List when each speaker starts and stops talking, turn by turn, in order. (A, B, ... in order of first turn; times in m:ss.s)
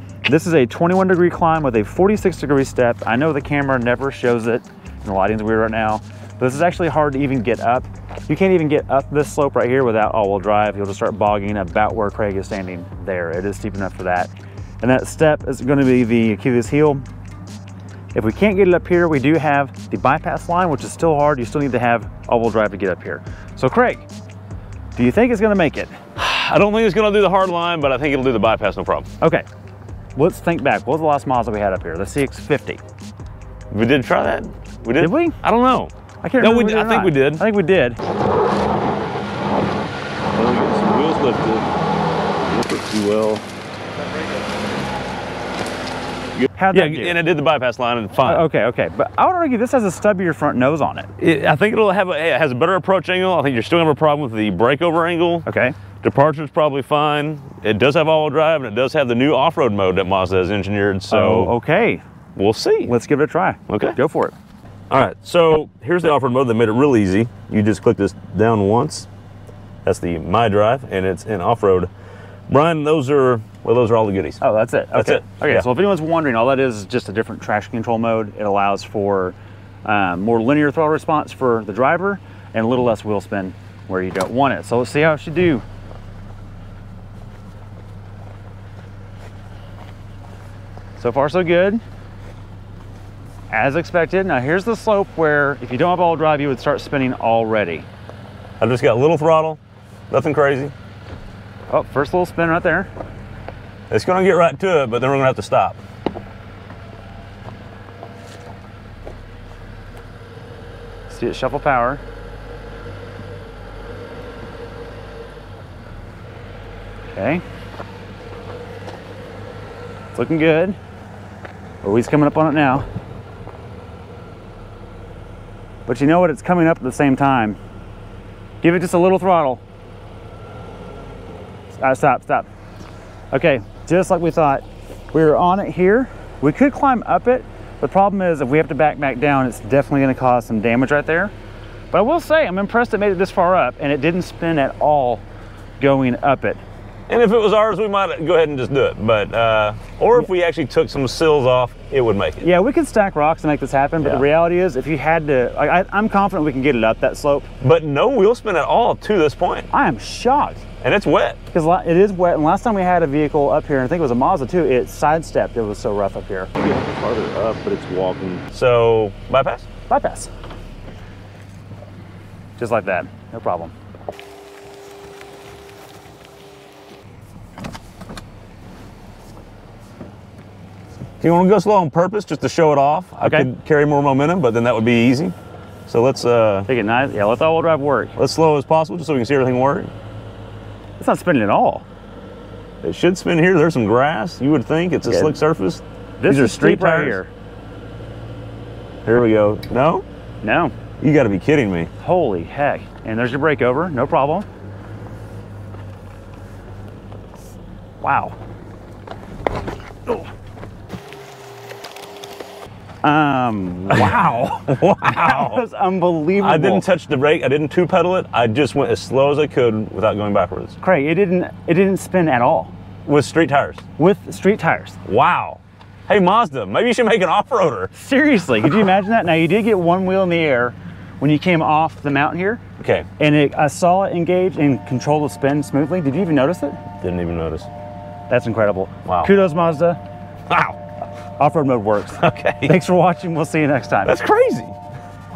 0:00.2-0:17.0 A
0:18.1-0:24.1 A
0:25.0-0:26.0 A
0:26.2-0:29.1 B
0:29.2-0:29.4 A
0:30.2-0:32.8 A
0:33.7-0:37.4 B
0:35.0-0:35.4 A
0:36.2-0:38.0 A
0:40.3-0:41.7 B
0:42.4-0:43.4 B
0:46.4-0:48.4 B
0:46.6-0:47.2 A
0:48.2-0:51.1 A
0:51.2-0:55.5 B
0:55.5-0:55.8 A
0:56.0-1:01.5 B
1:01.1-1:02.0 A
1:02.4-1:02.9 B
1:02.8-1:04.3 A
1:03.7-1:04.0 B
1:04.9-1:09.1 B
1:09.8-1:11.9 B
1:12.5-1:14.4 B
1:14.4-1:25.6 A
1:14.9-1:15.7 B
1:31.0-1:31.8 A
1:33.5-1:37.8 A
1:38.6-1:40.7 B
1:41.7-1:42.9 A
1:43.9-1:45.8 B
1:51.1-1:52.0 A
1:57.1-1:57.4 A
2:00.1-2:00.8 A
2:01.8-2:02.8 A
2:05.8-2:07.6 A
2:08.6-2:09.6 A
2:11.8-2:12.5 A
2:13.3-2:21.3 A
2:21.9-2:25.2 A
2:25.8-2:26.6 A
2:27.1-2:32.4 B
2:32.4-2:37.5 A
2:37.6-2:39.7 B
2:39.7-2:40.6 A
2:40.8-2:41.4 B
2:41.5-2:46.5 A
2:46.6-2:49.7 B
2:49.9-2:50.3 A
2:52.6-2:53.7 A
3:01.2-3:05.3 B
3:03.2-3:03.5 A
3:05.9-3:06.7 B
3:06.7-3:08.1 A
3:08.2-3:09.9 B
3:11.0-3:11.8 A
3:12.8-3:17.2 B
3:15.0-3:15.3 A
3:16.2-3:17.3 A
3:19.0-3:20.0 B
3:20.4-3:20.7 A
3:21.0-3:21.9 B
3:22.0-3:24.5 A
3:28.0-3:28.3 A
3:33.0-3:36.9 A
3:33.9-3:35.6 B
3:36.4-3:40.8 B
3:40.8-3:42.7 A
3:43.0-3:43.8 B
3:44.0-3:45.0 A
3:45.1-3:47.9 B
3:47.9-3:52.6 A
3:52.8-3:53.1 B
3:53.2-3:56.8 A
3:57.0-3:57.7 B
3:58.3-4:00.0 A
3:59.0-3:59.3 B
4:00.5-4:00.8 B
4:01.4-4:04.1 A
4:02.2-4:02.8 B
4:04.0-4:04.8 B